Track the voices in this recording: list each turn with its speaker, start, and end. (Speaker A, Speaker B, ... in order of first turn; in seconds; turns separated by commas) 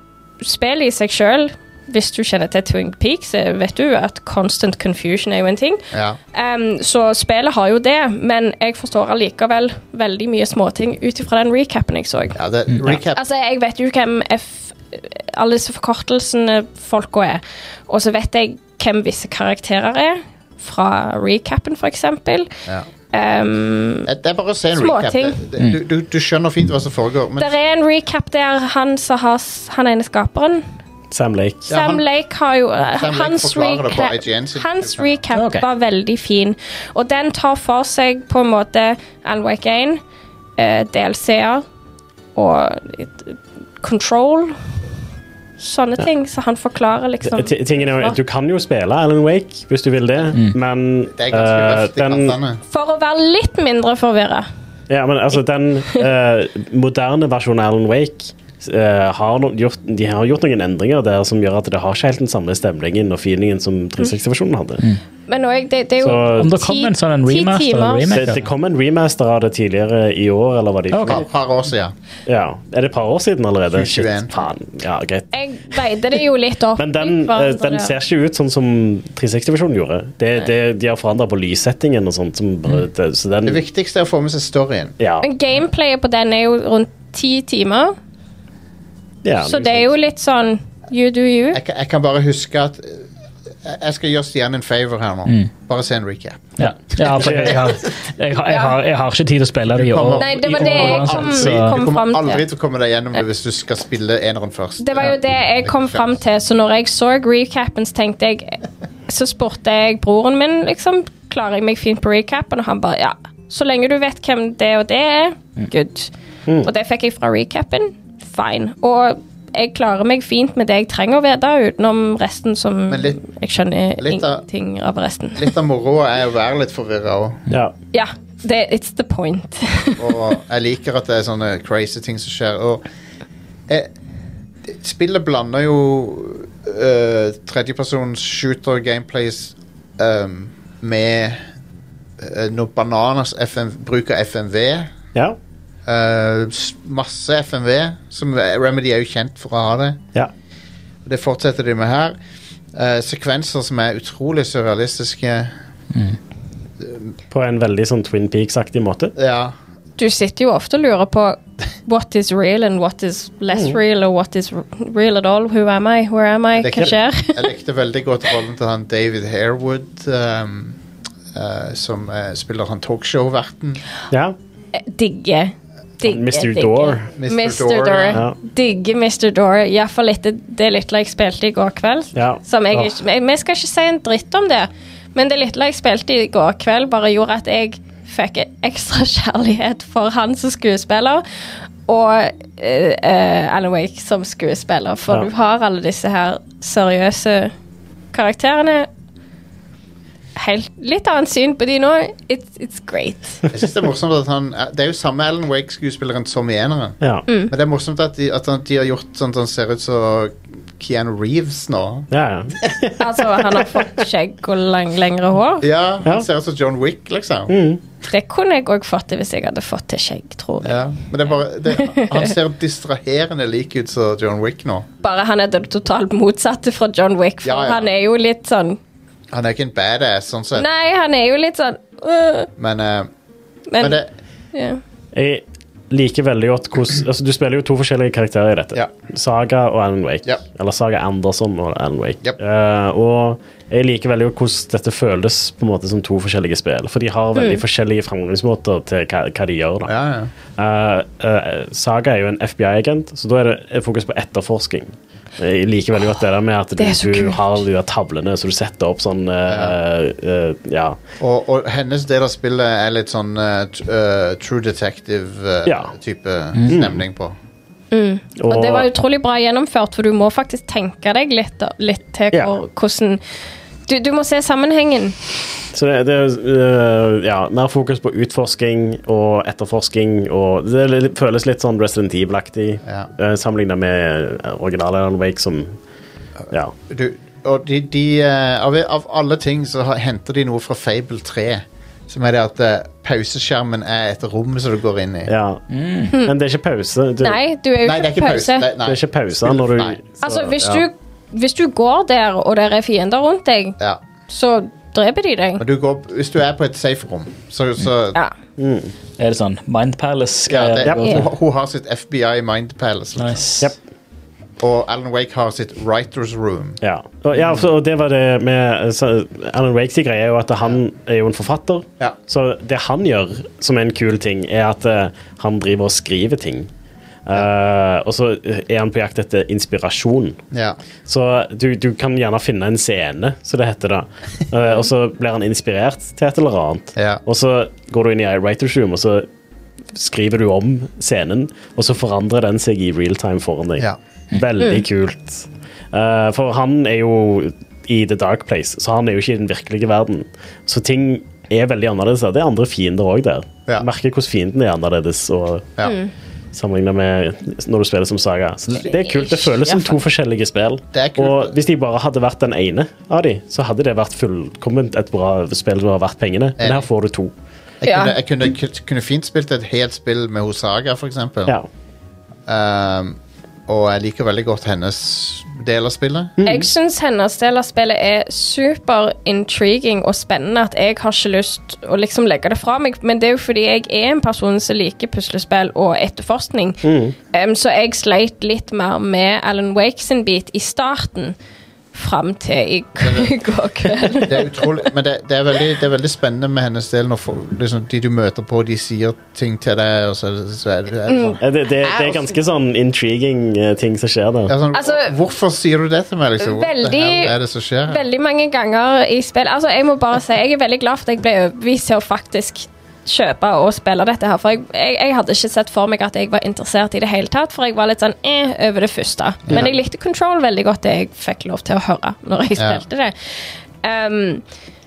Speaker A: 0.4-5.8, Speaker B: 5.9-6.2, Speaker A: 6.3-12.4, Speaker B: 12.3-13.2, Speaker A: 13.1-22.5, Speaker A: 23.1-24.1, Speaker B: 24.1-27.5, Speaker A: 24.7-25.4, Speaker A: 27.4-30.6, Speaker C: 31.1-31.7, Speaker B: 31.7-32.0, Speaker A: 31.7-40.0, Speaker B: 32.9-35.2, Speaker D: 35.3-35.6, Speaker A: 40.6-41.6, Speaker A: 42.3-44.6, Speaker A: 45.6-48.2, Speaker C: 47.2-52.4, Speaker B: 51.1-52.6, Speaker A: 52.7-54.5, Speaker C: 54.9-64.8, Speaker A: 65.3-68.2, Speaker C: 66.0-66.5, Speaker D: 66.4-68.5, Speaker C: 68.1-71.3, Speaker D: 70.9-71.2, Speaker B: 71.0-71.9, Speaker C: 72.3-76.2, Speaker B: 73.7-74.5, Speaker A: 75.3-77.9, Speaker C: 76.8-83.6, Speaker B: 83.4-84.9, Speaker C: 85.0-85.3, Speaker A: 85.2-87.9, Speaker C: 89.2-89.9, Speaker A: 89.4-91.6, Speaker B: 91.5-93.1, Speaker B: 93.6-97.9, Speaker D: 96.6-101.8, Speaker C: 97.0-97.6, Speaker A: 98.5-98.8, Speaker B: 99.7-106.2, Speaker A: 100.2-102.4, Speaker A: 104.8-116.1, Speaker A: 116.6-125.5, Speaker B: 122.9-123.2, Speaker B: 124.0-124.4, Speaker B: 125.3-127.4, Speaker A: 127.9-130.2, Speaker B: 130.0-132.8, Speaker B: 134.7-141.4, Speaker B: 142.2-144.9, Speaker B: 145.8-150.0, Speaker B: 151.0-152.2, Speaker B: 152.7-155.5, Speaker B: 156.8-157.1, Speaker C: 157.3-159.1, Speaker B: 159.2-159.5, Speaker A: 160.0-167.5, Speaker C: 163.5-163.8, Speaker B: 166.6-170.8, Speaker B: 171.3-173.8, Speaker A: 174.7-191.2, Speaker C: 176.0-177.1, Speaker B: 177.1-178.2, Speaker C: 182.1-182.9, Speaker A: 191.9-197.5, Speaker A: 198.1-198.9, Speaker A: 200.3-203.4, Speaker B: 203.5-212.1, Speaker A: 207.3-207.5, Speaker C: 212.1-214.0, Speaker A: 213.0-215.6, Speaker B: 215.6-217.5, Speaker C: 217.5-217.8, Speaker A: 218.1-220.8, Speaker B: 220.6-224.9, Speaker A: 221.7-222.3, Speaker A: 225.0-228.8, Speaker B: 227.4-227.9, Speaker B: 229.3-230.7, Speaker A: 230.5-232.5, Speaker B: 232.6-233.1, Speaker A: 233.7-234.0, Speaker B: 233.8-234.1, Speaker A: 234.5-234.8, Speaker C: 235.1-249.9, Speaker A: 247.3-247.6, Speaker B: 249.8-250.3, Speaker C: 250.6-261.0, Speaker A: 256.8-257.6, Speaker B: 259.5-259.8, Speaker B: 261.2-267.4, Speaker C: 265.6-265.9, Speaker C: 266.7-267.0, Speaker A: 267.9-273.2, Speaker C: 268.4-268.9, Speaker A: 273.9-275.1, Speaker C: 275.7-285.7, Speaker B: 282.8-283.1, Speaker B: 286.9-295.3, Speaker C: 295.3-295.6, Speaker D: 295.7-296.1, Speaker C: 296.2-297.4, Speaker A: 297.2-298.7, Speaker B: 297.8-300.0, Speaker C: 298.8-300.8, Speaker A: 300.2-303.8, Speaker A: 304.3-305.6, Speaker B: 305.6-308.2, Speaker C: 308.6-308.9, Speaker D: 309.2-311.3, Speaker B: 310.5-313.4, Speaker D: 313.2-313.7, Speaker B: 314.6-316.8, Speaker C: 316.8-326.7, Speaker C: 327.2-330.4, Speaker B: 330.5-330.8, Speaker C: 331.1-339.2, Speaker B: 336.9-337.2, Speaker C: 339.9-355.7, Speaker A: 355.8-356.1, Speaker C: 356.5-367.3, Speaker A: 358.7-360.0, Speaker B: 360.9-361.6, Speaker B: 366.6-366.9, Speaker B: 367.8-371.6, Speaker A: 367.8-368.1, Speaker B: 372.5-376.3, Speaker C: 376.4-376.7, Speaker A: 376.4-391.3, Speaker C: 386.8-387.1, Speaker A: 391.9-394.7, Speaker B: 393.0-393.3, Speaker B: 394.2-401.4, Speaker A: 401.1-402.3, Speaker C: 401.4-404.5, Speaker B: 404.5-408.0, Speaker A: 404.7-405.1, Speaker A: 406.4-407.3, Speaker A: 407.9-423.1, Speaker B: 419.5-419.7, Speaker B: 422.6-422.8, Speaker A: 423.8-424.4